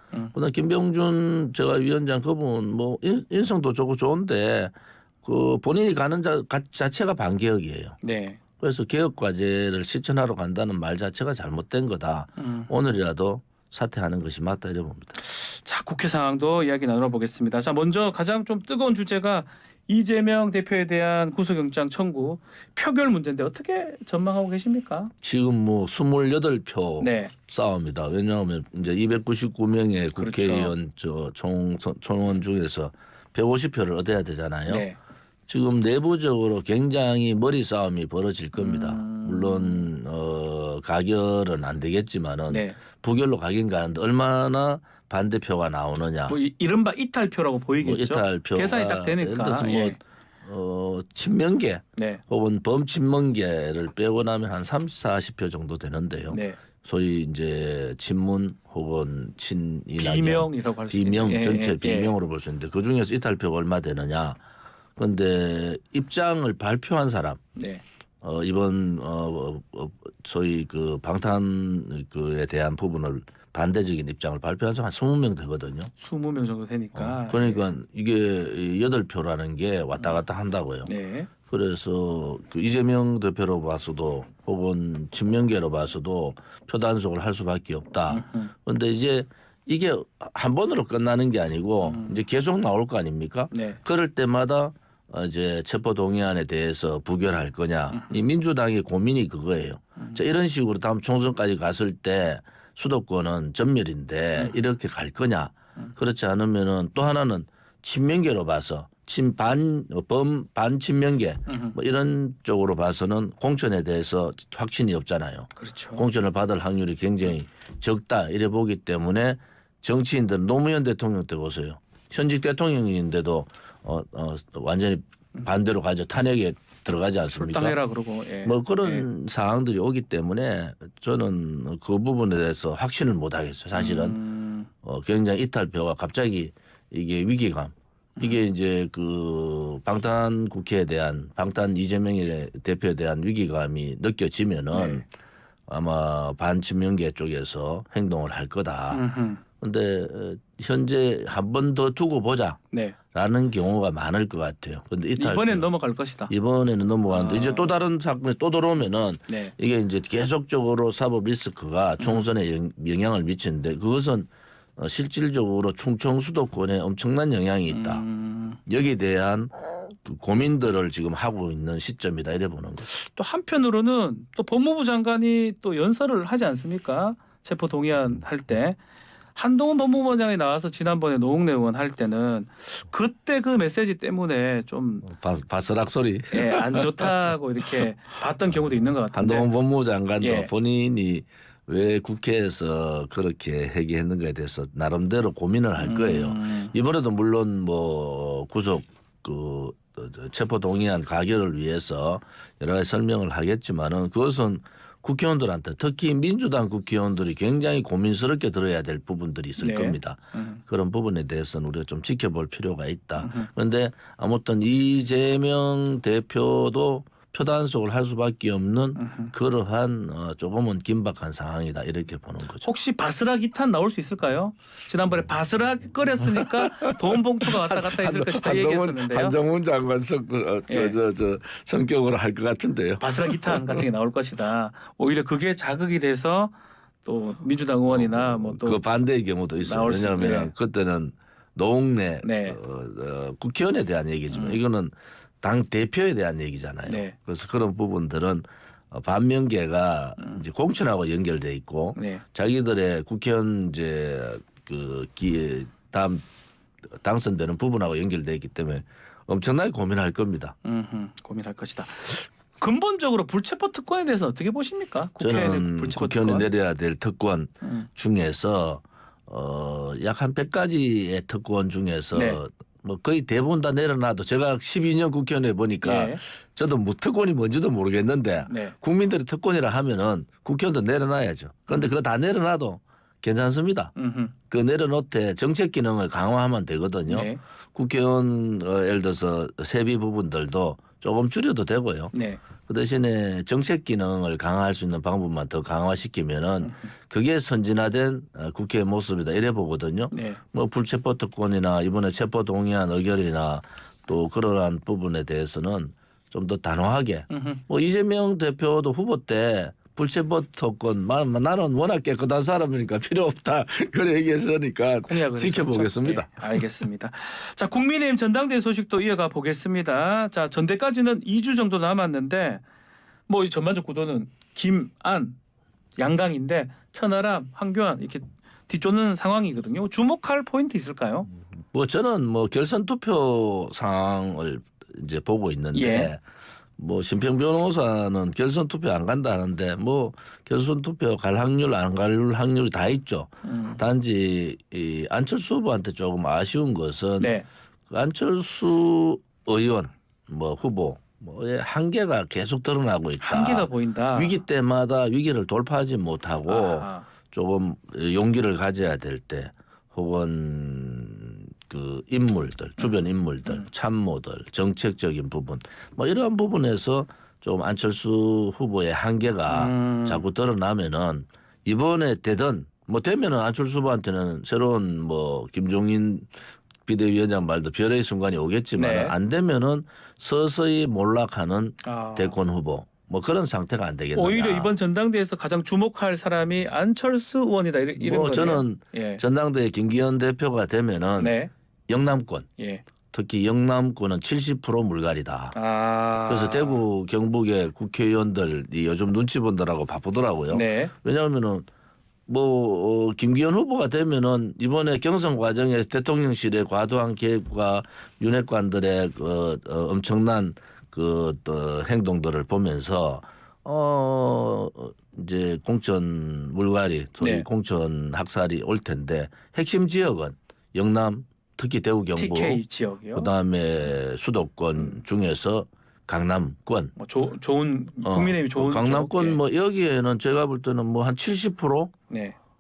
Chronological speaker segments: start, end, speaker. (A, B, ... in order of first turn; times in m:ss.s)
0:00.3-0:08.0 A
0:08.0-0:08.4 B
0:08.6-0:15.2 A
0:12.4-0:12.7 B
0:15.2-0:25.1 B
0:25.2-0:34.9 A
0:27.0-0:27.3 B
0:30.2-0:30.7 B
0:34.7-0:35.0 B
0:35.5-0:46.4 A
0:38.6-0:39.9 B
0:42.5-0:42.8 B
0:46.3-0:50.0 B
0:47.8-1:04.4 A
0:52.0-0:52.2 B
0:56.3-0:56.6 B
1:00.0-1:02.1 B
1:05.0-1:07.4 A
1:07.6-1:07.8 B
1:08.2-1:15.9 A
1:16.0-1:17.7 B
1:16.9-1:20.9 A
1:20.9-1:21.3 B
1:21.5-2:07.8 A
1:28.1-1:28.5 B
1:31.8-1:32.2 B
1:33.5-1:33.8 B
1:37.9-1:38.2 B
1:51.5-1:51.8 B
1:55.6-1:56.0 B
2:07.3-2:09.0 B
2:08.4-2:14.2 A
2:13.7-2:14.7 B
2:14.8-2:25.0 A
2:24.7-2:25.0 B
2:25.7-2:29.0 A
2:28.9-2:29.4 B
2:29.6-2:32.6 A
2:32.7-2:33.0 B
2:33.1-2:35.7 A
2:35.2-2:36.3 B
2:36.3-2:48.0 A
2:37.1-2:37.7 B
2:39.3-2:39.5 B
2:42.0-2:42.2 B
2:47.7-2:48.6 B
2:48.7-2:52.9 A
2:52.9-2:58.8 B
2:59.3-3:05.0 B
3:05.0-3:07.1 A
3:06.3-3:09.5 B
3:09.1-3:42.7 A
3:10.2-3:10.5 B
3:15.8-3:16.7 B
3:29.6-3:30.6 B
3:33.2-3:33.5 B
3:39.0-3:39.3 B
3:42.6-3:49.4 B
3:46.2-3:53.8 A
3:50.7-3:51.0 B
3:53.0-3:56.5 B
3:57.0-3:58.8 B
3:57.9-4:16.2 A
3:59.6-4:00.5 B
4:02.2-4:02.6 B
4:04.3-4:04.6 B
4:06.8-4:07.2 B
4:12.0-4:12.2 B
4:17.0-4:20.6 A
4:20.6-4:26.5 B
4:25.2-4:43.9 A
4:27.6-4:27.9 B
4:32.1-4:32.4 B
4:35.8-4:36.2 B
4:38.5-4:38.8 B
4:44.0-4:44.3 B
4:44.5-4:52.1 A
4:47.1-4:47.4 B
4:52.1-4:52.4 B
4:52.6-5:16.6 A
5:00.1-5:00.4 B
5:07.3-5:07.6 B
5:15.0-5:22.6 B
5:23.3-5:25.4 B
5:26.0-5:31.3 B
5:31.7-5:36.2 A
5:35.7-5:36.1 B
5:36.8-5:47.3 A
5:43.4-5:43.8 B
5:47.2-5:47.4 B
5:47.9-6:16.3 A
5:53.2-5:54.4 B
5:56.5-5:57.1 B
6:02.8-6:03.7 B
6:09.5-6:10.2 B
6:16.8-6:24.7 A
6:18.8-6:19.1 B
6:21.8-6:22.4 B
6:24.2-6:29.2 B
6:28.0-6:31.4 A
6:31.2-6:31.5 B
6:31.9-6:32.5 A
6:32.6-6:32.8 B
6:33.1-6:35.6 A
6:35.5-6:36.8 B
6:36.3-6:41.7 A
6:40.5-6:40.9 B
6:42.3-7:02.6 A
6:57.2-6:57.5 B
7:02.2-7:03.3 B
7:03.1-7:06.9 A
7:07.0-7:09.4 B
7:08.0-7:11.9 A
7:12.1-7:12.4 B